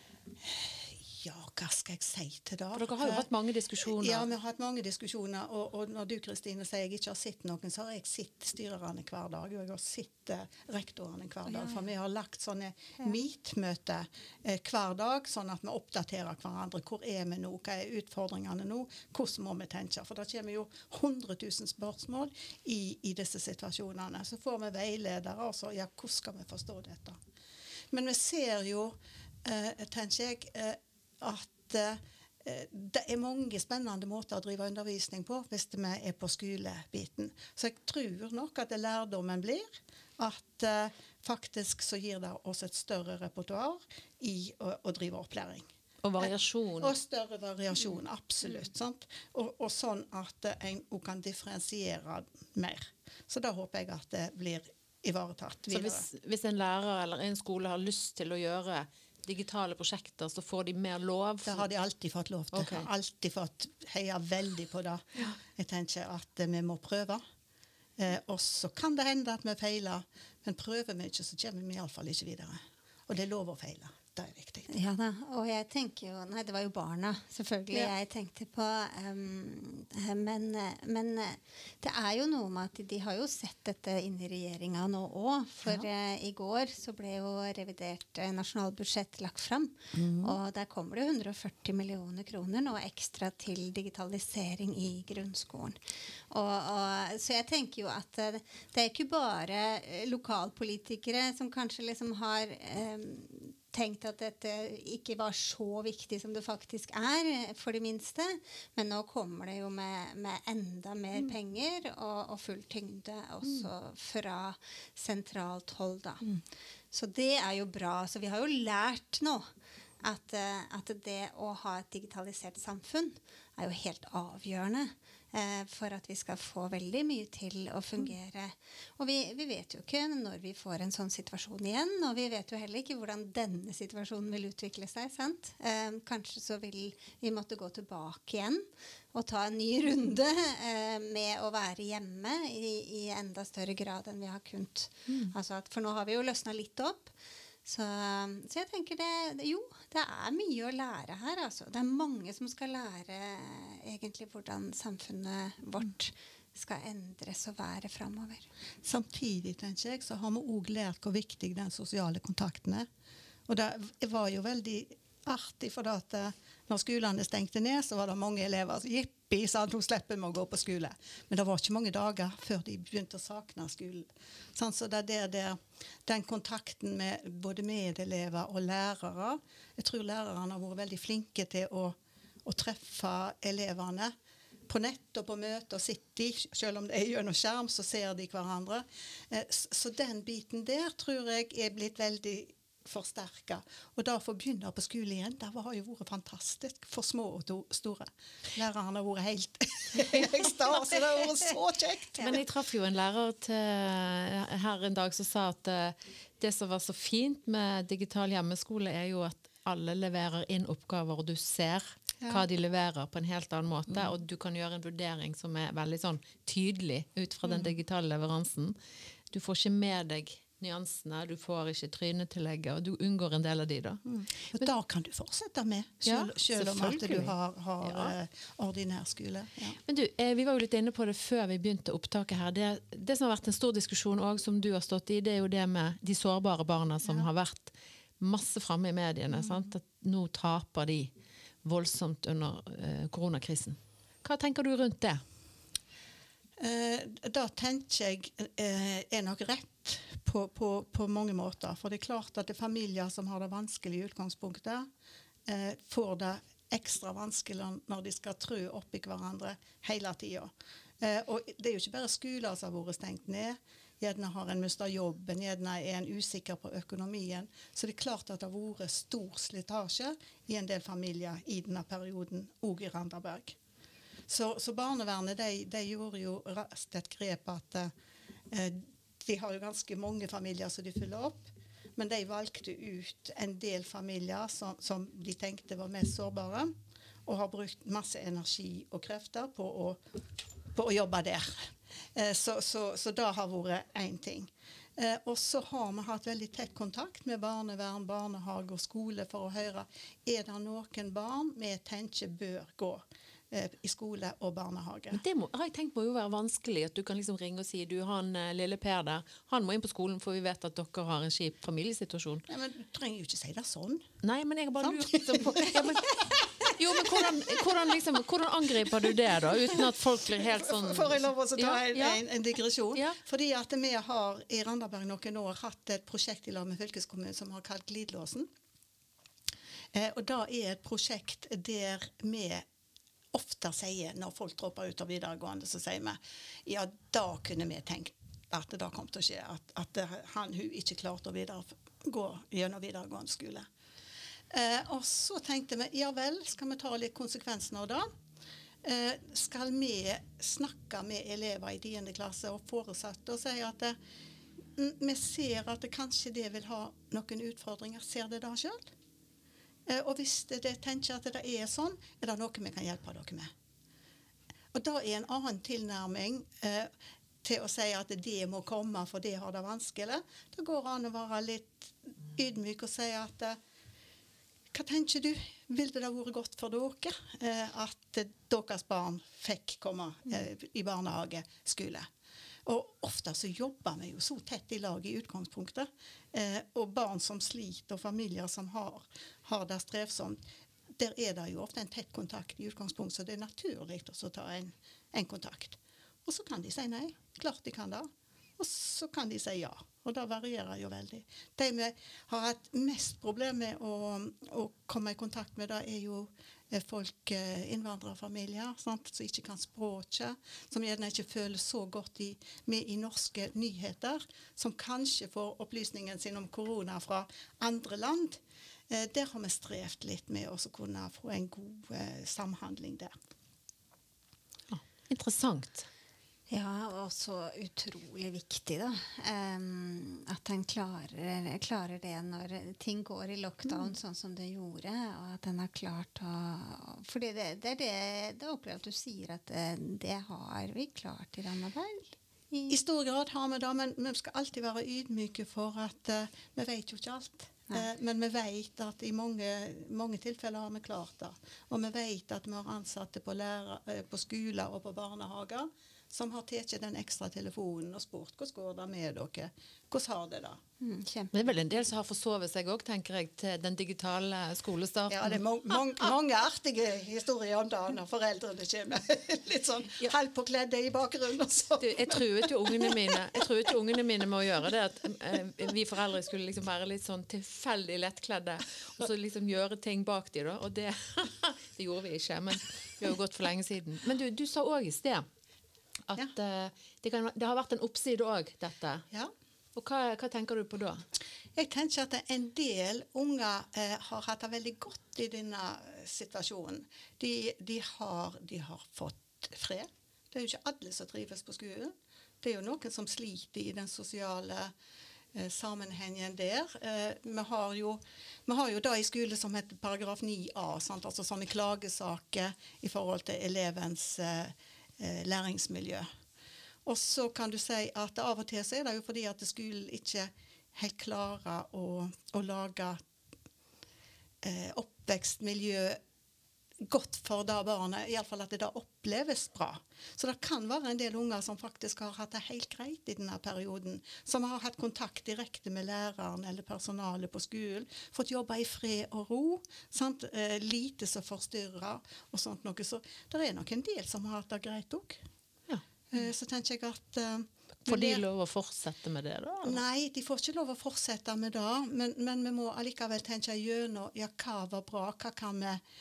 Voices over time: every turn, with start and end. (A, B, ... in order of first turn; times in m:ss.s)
0:00.4-0:03.3 A
0:02.7-0:04.3 B
0:03.8-0:27.2 A
0:11.5-0:11.8 C
0:27.9-0:45.7 A
0:46.0-0:46.9 B
0:46.2-0:56.0 A
0:55.7-1:01.7 B
1:01.4-1:07.2 A
1:02.5-1:02.9 B
1:08.0-1:14.7 A
1:14.7-1:35.8 C
1:29.9-1:30.4 A
1:36.3-1:56.3 C
1:56.9-1:59.5 C
2:00.0-2:27.1 C
2:27.6-2:38.5 C
2:38.8-2:42.9 A
2:43.5-3:04.1 A
3:04.7-3:22.4 A
3:22.2-3:38.8 B
3:32.2-3:32.4 A
3:37.4-3:37.7 A
3:39.3-3:44.0 B
3:44.0-3:49.8 A
3:46.0-3:48.1 B
3:49.8-4:01.1 B
3:59.4-3:59.6 A
4:01.6-4:05.2 B
4:06.6-4:14.9 A
4:15.5-4:33.6 A
4:34.3-4:37.9 A
4:38.5-4:46.7 A
4:47.2-4:50.0 A
4:50.7-5:05.2 A
5:05.1-5:12.4 B
5:12.5-5:14.1 A
5:14.2-5:22.2 B
5:14.8-5:17.7 A
5:18.9-5:28.5 A
5:29.9-5:32.6 A
5:33.3-5:43.7 A
5:44.5-5:48.1 A
5:48.8-5:54.0 A
5:54.7-5:58.9 A
5:59.9-6:03.5 A
6:04.7-6:06.9 A
6:07.4-6:13.6 A
6:14.7-6:22.1 A
6:22.6-6:30.4 A
6:31.0-7:03.1 A
7:04.7-7:05.9 B
7:06.5-7:22.8 C
7:22.7-7:40.6 A
7:40.8-7:41.3 C
7:41.3-7:45.4 B
7:45.1-7:53.4 A
7:51.8-8:05.2 B
8:06.1-8:09.0 B
8:09.8-8:11.0 B
8:11.6-8:24.7 A
8:25.3-8:36.1 A
8:36.8-8:43.0 A
8:44.4-8:46.0 A
8:46.8-9:05.2 A
9:06.1-9:08.2 A
9:07.8-9:09.8 B
9:09.6-9:15.8 A